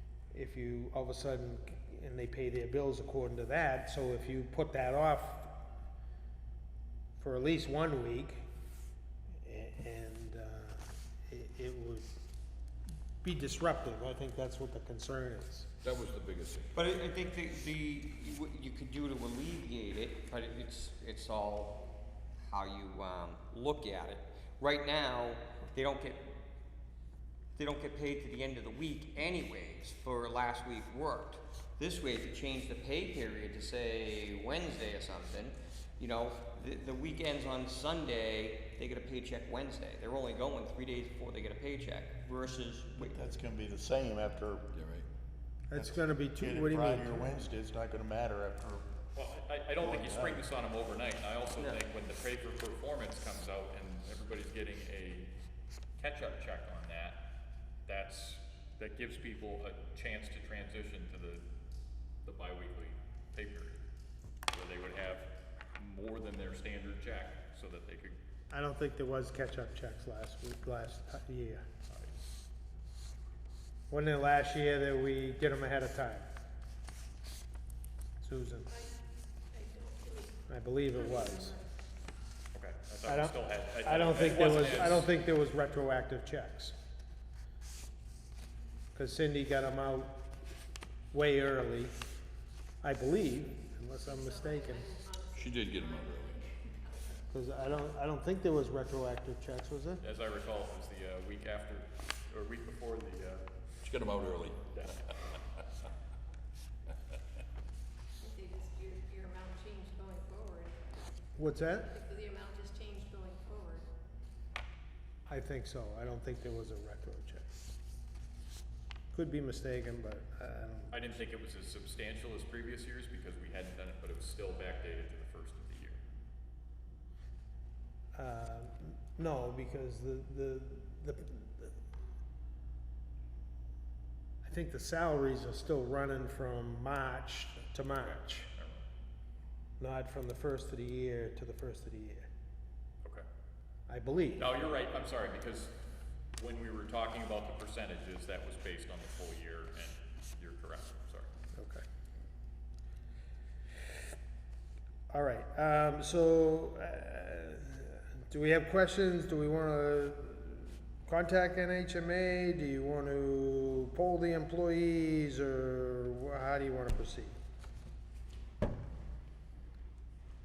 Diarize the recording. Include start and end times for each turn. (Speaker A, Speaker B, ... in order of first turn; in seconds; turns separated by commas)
Speaker A: 0.3-5.5, Speaker A: 7.2-8.4, Speaker A: 9.4-12.1, Speaker A: 13.2-15.7, Speaker B: 15.8-16.9, Speaker C: 16.8-21.9, Speaker C: 22.4-26.4, Speaker C: 27.6-43.2, Speaker D: 43.0-44.7, Speaker B: 44.7-45.1, Speaker A: 45.7-47.3, Speaker D: 45.7-48.9, Speaker E: 49.1-55.3, Speaker D: 49.8-50.5, Speaker C: 51.6-51.8, Speaker E: 56.0-57.2, Speaker E: 57.9-61.4, Speaker E: 62.2-63.8, Speaker E: 64.5-68.2, Speaker A: 68.5-71.6, Speaker E: 71.9-72.2, Speaker A: 73.9-76.3, Speaker A: 78.2-78.7, Speaker F: 78.7-79.0, Speaker F: 79.5-81.7, Speaker A: 80.5-81.5, Speaker E: 82.5-85.1, Speaker A: 83.1-86.8, Speaker A: 88.9-90.2, Speaker A: 91.1-91.9, Speaker A: 92.8-94.8, Speaker F: 94.0-97.3, Speaker B: 95.3-96.4, Speaker A: 97.3-100.0, Speaker E: 100.0-103.5, Speaker B: 103.8-104.8, Speaker F: 108.2-111.1, Speaker A: 111.4-111.9, Speaker F: 111.8-113.8, Speaker A: 115.3-117.5, Speaker A: 119.1-121.0, Speaker E: 120.9-126.0, Speaker A: 128.2-131.8, Speaker A: 134.4-138.5, Speaker E: 138.0-138.8, Speaker A: 139.8-142.3, Speaker A: 143.9-144.5, Speaker E: 144.4-145.8, Speaker E: 146.4-151.3, Speaker A: 151.6-151.8, Speaker A: 155.1-167.4